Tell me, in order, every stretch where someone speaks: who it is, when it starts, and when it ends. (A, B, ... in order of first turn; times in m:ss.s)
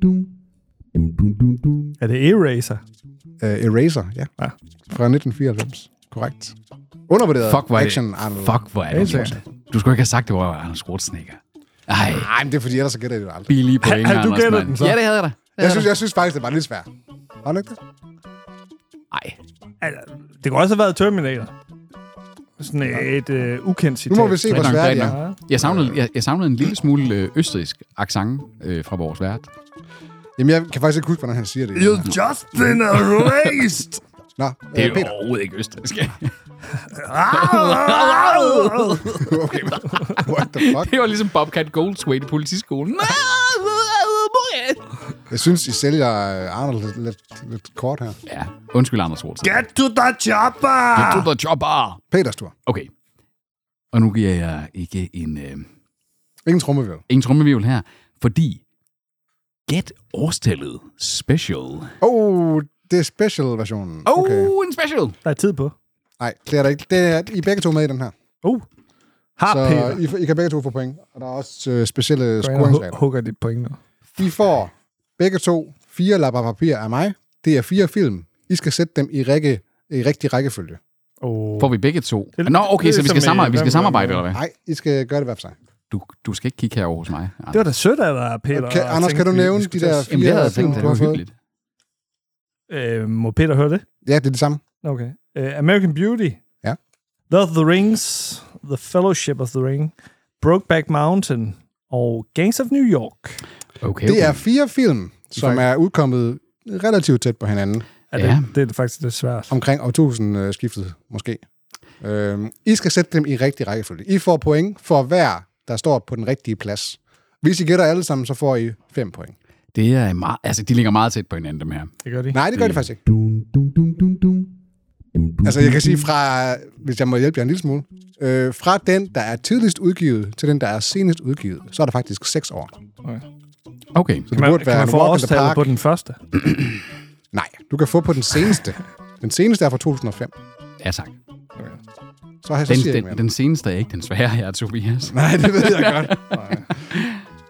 0:02.0-0:02.8 A
0:03.4-0:04.3 B
0:04.9-0:06.6 B
0:07.1-0:09.4 B
0:07.4-0:12.3 C
0:08.9-0:09.4 A
0:12.1-0:13.5 B
0:13.5-0:15.9 C
0:13.8-0:15.0 A
0:15.6-0:16.9 B
0:17.4-0:17.8 B
0:19.1-0:19.4 C
0:19.8-0:21.5 A
0:22.6-0:25.4 A
0:24.1-0:25.8 B
0:24.5-0:29.5 C
0:30.4-0:32.1 B
0:31.8-0:34.0 A
0:34.4-0:35.1 B
0:34.7-0:36.3 C
0:36.9-0:39.1 A
0:37.2-0:44.8 C
0:39.0-0:40.9 B
0:45.3-0:48.2 B
0:48.3-0:49.6 C
0:49.4-0:51.3 A
0:51.0-0:52.0 C
0:52.1-0:52.5 B
0:53.9-0:55.7 C
0:56.5-0:57.0 B
0:57.1-0:58.6 C
0:59.7-1:01.9 C
1:02.0-1:04.5 B
1:04.1-1:05.2 C
1:05.2-1:05.7 A
1:06.2-1:08.1 B
1:09.4-1:10.0 A
1:09.5-1:13.0 B
1:12.4-1:13.8 A
1:14.2-1:20.8 B
1:21.2-1:21.7 A
1:21.6-1:24.4 C
1:22.4-1:24.2 A
1:24.3-1:25.6 B
1:25.9-1:27.7 C
1:27.5-1:30.9 A
1:28.5-1:31.2 B
1:30.1-1:31.3 C
1:32.7-1:33.8 A
1:34.0-1:34.6 B
1:34.8-1:36.4 A
1:37.3-1:43.4 A
1:43.8-1:44.4 C
1:44.0-1:47.9 B
1:48.1-1:49.6 A
1:48.2-1:48.5 C
1:49.5-1:51.4 B
1:52.0-1:59.4 B
1:59.7-2:01.9 C
2:02.0-2:02.4 A
2:02.3-2:03.0 B
2:02.6-2:02.8 C
2:05.4-2:12.7 B
2:13.9-2:14.3 C
2:14.3-2:15.7 B
2:14.3-2:16.2 A
2:17.3-2:20.3 B
2:20.8-2:21.1 C
2:22.4-2:23.2 B
2:22.7-2:27.2 C
2:25.1-2:26.4 B
2:26.3-2:26.7 A